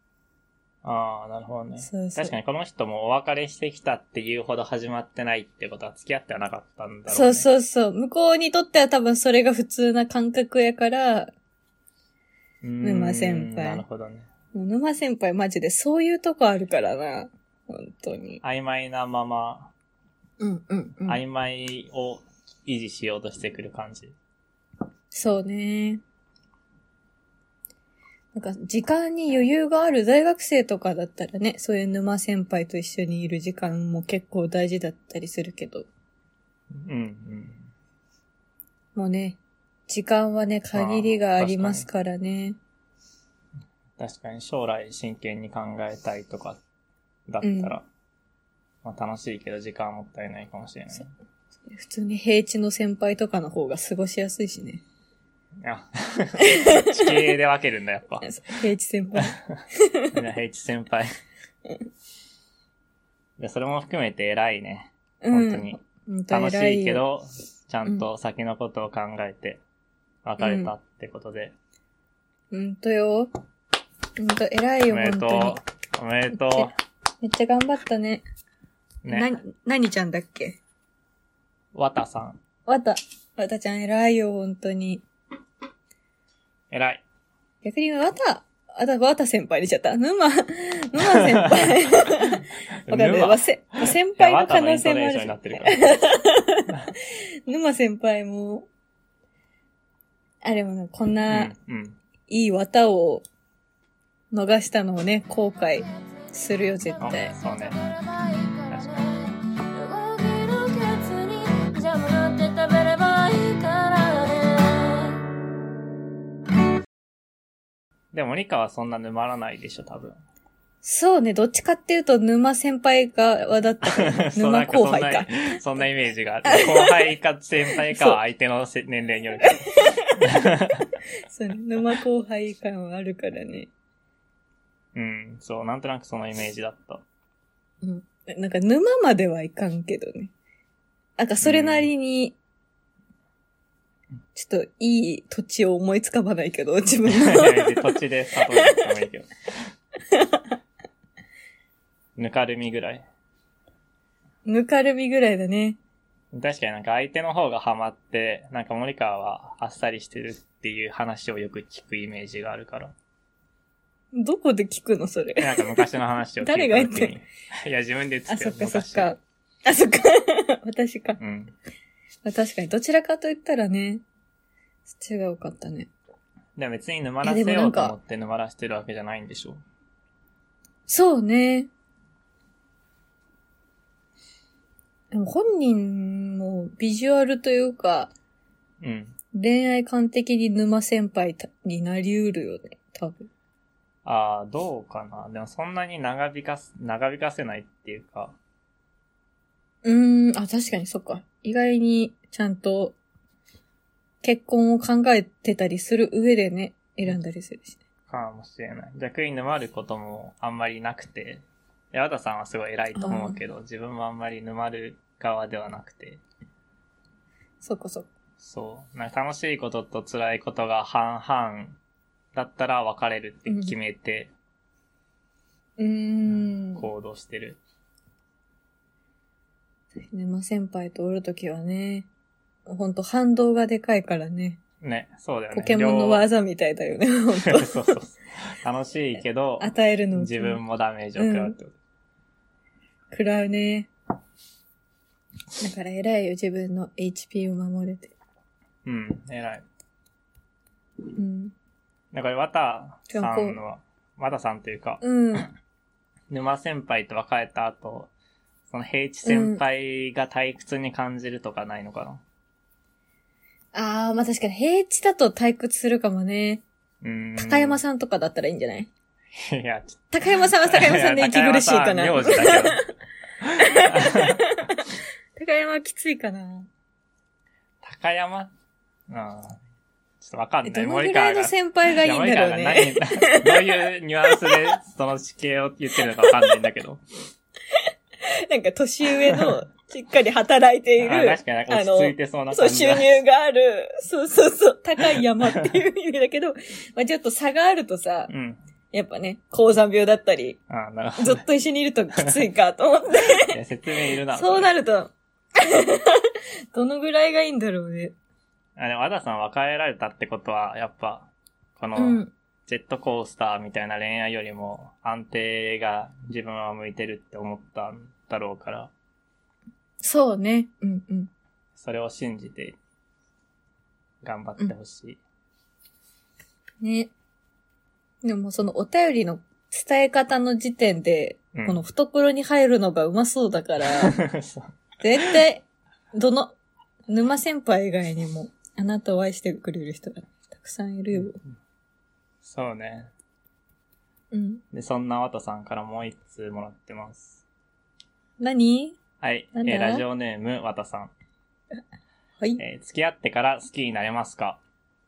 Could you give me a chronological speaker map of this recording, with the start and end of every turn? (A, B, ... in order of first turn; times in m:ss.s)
0:00.8-0:07.5 A
0:01.8-0:02.3 B
0:07.1-0:11.3 B
0:12.6-0:14.3 A
0:12.8-0:13.8 B
0:14.5-0:18.4 B
0:18.4-0:19.7 A
0:20.4-0:21.2 B
0:21.1-0:24.1 A
0:25.1-0:26.0 B
0:28.3-0:35.9 B
0:36.8-0:37.7 A
0:39.0-0:42.6 B
0:40.7-0:41.9 A
0:44.0-0:46.6 A
0:47.3-0:47.9 A
0:47.4-0:47.8 B
0:48.8-0:51.1 A
0:51.7-0:54.8 B
0:55.6-0:58.3 A
0:56.4-0:57.2 B
0:58.2-1:00.1 B
1:00.1-1:01.1 A
1:03.4-1:09.6 A
1:05.2-1:07.0 B
1:10.2-1:11.5 A
1:10.4-1:10.7 B
1:12.5-1:13.3 B
1:14.2-1:15.6 B
1:14.9-1:16.7 A
1:16.3-1:16.7 B
1:17.2-1:18.2 B
1:19.1-1:20.6 B
1:21.7-1:22.4 A
1:22.7-1:25.0 B
1:26.7-1:27.0 A
1:27.6-1:38.7 B
1:31.1-1:32.3 A
1:32.9-1:35.9 A
1:40.4-1:41.5 B
1:41.3-1:42.0 A
1:42.3-1:43.2 B
1:44.3-1:47.4 B
1:46.8-1:55.2 C
1:47.0-1:47.8 A
1:58.1-2:00.2 A
2:00.8-2:05.3 B
2:03.8-2:10.9 A
2:06.5-2:07.0 B
2:07.9-2:08.2 B
2:09.8-2:10.5 B
2:11.3-2:13.7 B
2:15.0-2:17.0 A
2:17.8-2:20.3 B
2:21.2-2:22.4 B
2:21.4-2:21.9 A
2:24.3-2:28.0 B
2:27.1-2:29.3 A
2:28.5-2:28.8 B
2:30.1-2:30.4 B
2:32.2-2:33.1 A
2:34.5-2:35.8 B
2:36.3-2:43.0 A
2:44.1-2:45.9 B
2:45.4-2:49.1 A
2:46.4-2:47.2 B
2:48.3-2:51.2 B
2:51.2-2:51.5 A
2:52.2-2:54.0 B
2:54.9-2:55.9 B
2:56.6-2:59.6 A
2:57.2-2:58.0 B
3:00.9-3:01.7 B
3:05.1-3:08.1 B
3:08.8-3:09.2 A
3:09.3-3:13.3 B
3:14.0-3:18.4 A
3:19.8-3:23.0 B
3:24.2-3:27.8 B
3:28.1-3:36.2 A
3:33.0-3:33.4 B
3:37.6-3:38.1 B
3:38.4-3:41.8 A
3:42.3-3:44.3 A
3:43.5-3:43.8 B
3:45.8-3:46.9 B
3:46.8-3:47.6 A
3:50.0-3:52.1 B
3:52.7-3:54.6 B
3:54.8-3:56.3 A
3:55.5-3:58.0 B
3:57.4-4:01.8 A
3:59.6-4:00.6 B
4:01.2-4:01.6 B
4:03.1-4:03.9 B
4:05.6-4:08.1 B
4:08.8-4:09.6 A
4:11.2-4:11.5 B
4:12.1-4:15.0 A
4:13.1-4:13.6 B
4:15.0-4:15.5 B
4:16.3-4:18.1 A
4:18.7-4:22.2 A
4:19.2-4:19.6 B
4:23.7-4:26.6 B
4:27.0-4:27.8 A
4:27.4-4:28.9 B
4:29.4-4:30.1 A
4:30.1-4:32.9 B
4:30.6-4:32.8 A
4:33.4-4:34.4 A
4:33.6-4:36.7 B
4:37.8-4:38.5 A
4:39.1-4:39.6 A
4:40.2-4:47.0 A
4:40.6-4:44.7 B
4:46.2-4:46.5 B
4:47.8-4:58.3 B
4:51.0-4:53.2 A
4:55.1-4:55.6 A
4:58.3-4:58.6 A
4:58.9-5:00.6 B
5:00.7-5:01.4 A
5:01.2-5:03.6 B
5:03.4-5:04.7 A
5:04.3-5:08.1 B
5:08.8-5:18.9 A
5:12.0-5:12.3 B
5:20.0-5:21.3 B
5:21.8-5:22.8 A
5:24.2-5:25.2 A
5:26.8-5:27.1 B
5:28.2-5:34.2 B
5:31.5-5:31.8 A
5:34.0-5:34.7 A
5:35.0-5:36.6 B
5:37.1-5:41.4 B
5:42.4-5:43.1 A
5:44.3-5:44.6 B
5:44.7-5:47.4 A
5:48.4-5:49.0 B
5:49.2-5:51.1 A
5:49.5-5:50.0 B
5:52.6-5:54.6 A